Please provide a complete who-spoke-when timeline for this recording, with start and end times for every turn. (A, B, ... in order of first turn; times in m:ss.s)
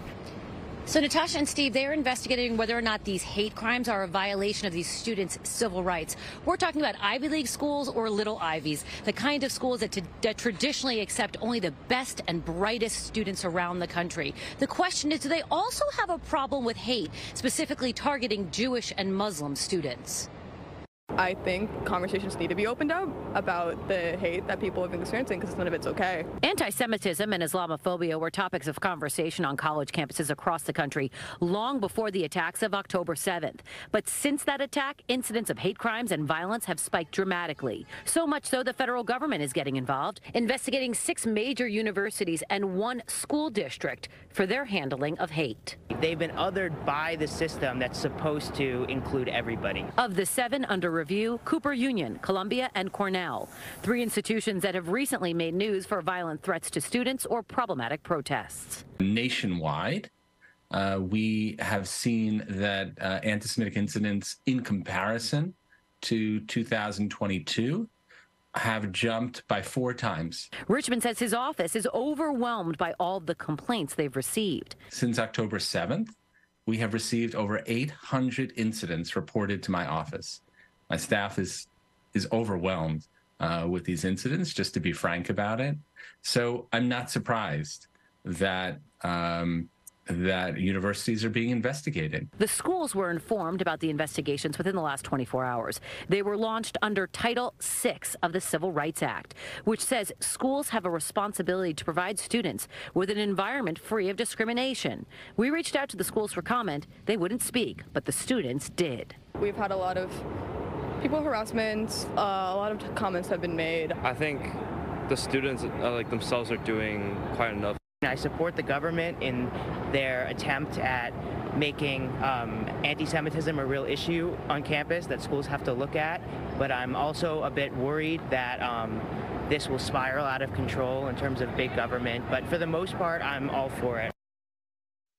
0:00.9-0:20.3 A
0:21.2-0:26.3 B
0:26.4-0:45.8 A
0:45.9-0:49.9 C
0:50.0-0:58.8 A
0:59.0-1:00.1 D
1:00.7-1:07.9 D
1:08.5-1:10.5 D
1:10.7-1:14.8 A
1:14.9-1:16.2 D
1:16.7-1:32.3 D
1:32.4-1:49.2 A
1:49.4-1:50.2 B
1:51.0-1:54.0 B
1:54.0-1:57.8 E
1:58.0-2:14.1 C